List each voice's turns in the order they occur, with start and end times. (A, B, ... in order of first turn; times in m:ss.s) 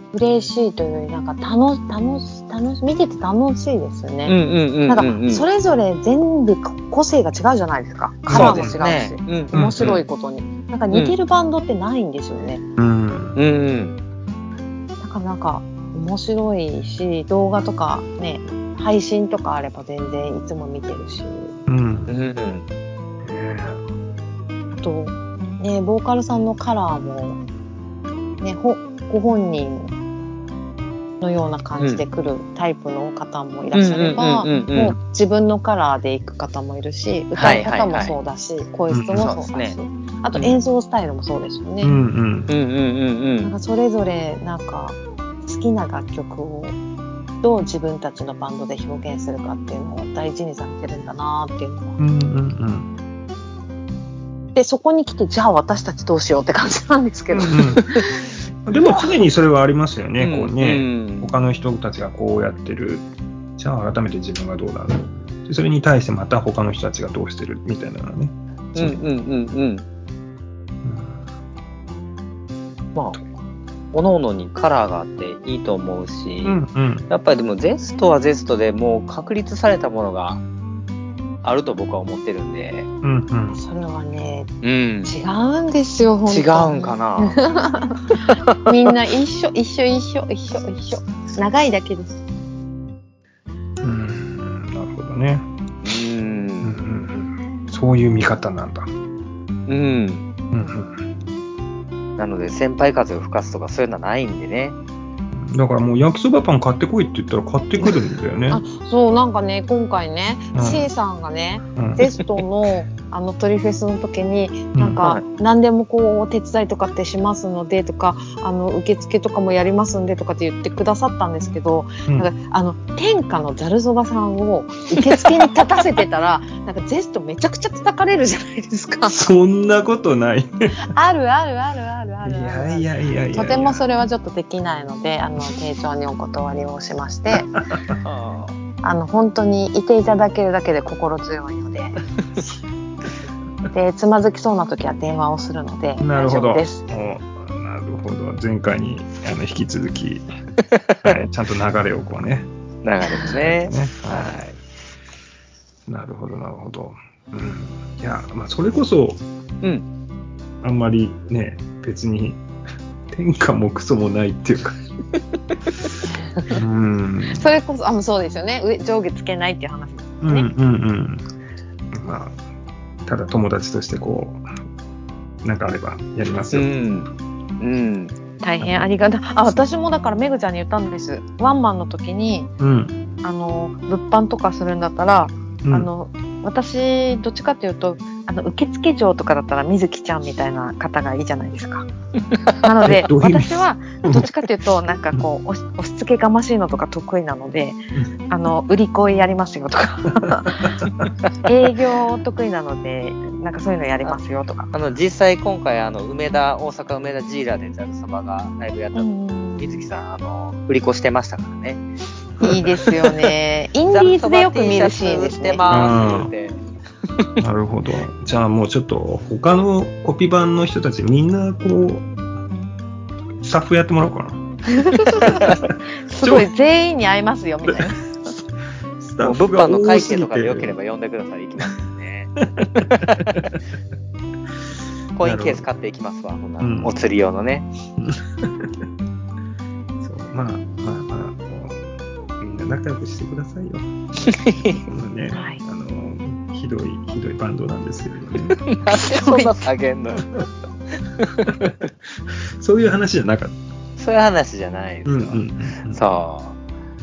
0:00.1-0:04.3 A
0:04.2-0:05.4 B
0:04.9-0:12.6 A
0:08.3-0:10.0 B
0:08.3-0:08.8 C
0:09.5-0:09.9 C
0:12.8-0:13.4 C
0:13.4-0:14.0 B
0:15.0-0:21.5 A
0:21.7-0:22.1 C
0:22.1-0:22.6 B
0:23.2-0:23.8 C
0:24.8-0:27.4 A
0:28.4-0:29.9 A
0:31.2-0:42.0 A
0:31.8-0:32.0 B
0:33.7-0:35.0 B
0:37.4-0:38.2 B
0:38.9-0:39.3 C
0:39.1-0:39.8 B
0:40.3-0:40.6 B
0:41.8-0:42.5 C
0:42.5-0:43.5 B
0:43.4-0:46.8 A
0:47.4-0:52.0 A
0:52.0-0:52.9 C
0:54.5-0:58.3 A
0:57.3-0:57.9 C
0:58.6-1:03.1 C
1:00.2-1:01.3 B
1:03.6-1:09.0 C
1:08.7-1:09.8 B
1:10.8-1:11.2 C
1:13.9-1:16.6 B
1:16.4-1:17.1 C
1:17.1-1:20.4 B
1:21.4-1:22.9 B
1:23.0-1:23.6 C
1:23.5-1:24.5 A
1:24.6-1:25.1 B
1:25.0-1:32.2 A
1:26.3-1:27.4 B
1:28.3-1:28.6 B
1:33.8-1:35.4 C
1:35.8-1:36.8 B
1:36.6-1:38.9 C
1:39.7-1:40.2 B
1:40.5-1:40.9 C
1:42.2-1:44.8 B
1:45.3-1:48.6 C
1:48.5-2:09.2 A
1:50.5-1:50.9 C
1:51.8-1:52.1 C
1:54.7-1:55.0 C
2:09.1-2:10.7 C
2:10.8-2:17.5 A
2:12.2-2:13.8 C
2:17.3-2:18.0 C
2:18.0-2:18.6 B
2:18.8-2:22.0 A
2:23.7-2:26.8 A
2:26.0-2:30.3 C
2:30.7-2:31.2 B
2:31.0-2:32.5 C
2:32.8-2:34.4 B
2:33.2-2:34.6 C
2:35.9-2:39.2 C
2:40.6-2:42.4 C
2:43.1-2:44.8 C
2:46.5-2:47.4 C
2:47.3-2:50.5 A
2:50.2-2:51.2 C
2:51.9-2:52.4 C
2:53.0-2:54.4 C
2:55.4-2:56.7 C
2:56.5-2:57.1 B
2:57.6-2:58.1 B
2:58.4-3:02.5 A
3:02.6-3:02.9 C
3:03.2-3:11.9 A
3:12.6-3:20.8 A
3:12.8-3:14.2 C
3:20.6-3:21.1 C
3:21.4-3:24.7 A
3:24.7-3:31.8 B
3:28.9-3:29.8 A
3:32.4-3:35.6 A
3:32.4-3:33.3 B
3:33.9-3:36.6 B
3:35.7-3:36.3 C
3:37.4-3:42.1 C
3:43.4-3:44.4 C
3:44.7-3:48.1 A
3:44.9-3:46.5 C
3:47.6-3:47.9 C
3:49.0-3:50.7 C
3:49.2-3:53.5 B
3:52.6-3:53.6 C
3:55.1-3:57.7 B
3:55.2-3:55.6 C
3:56.6-3:57.0 C
3:58.0-3:58.7 C
4:00.0-4:03.9 C
4:04.2-4:04.9 B
4:04.9-4:08.6 C
4:05.3-4:05.6 A
4:08.6-4:10.4 B
4:08.9-4:09.5 A
4:11.2-4:11.5 B
4:11.5-4:13.6 C
4:14.0-4:16.6 B
4:15.0-4:16.0 C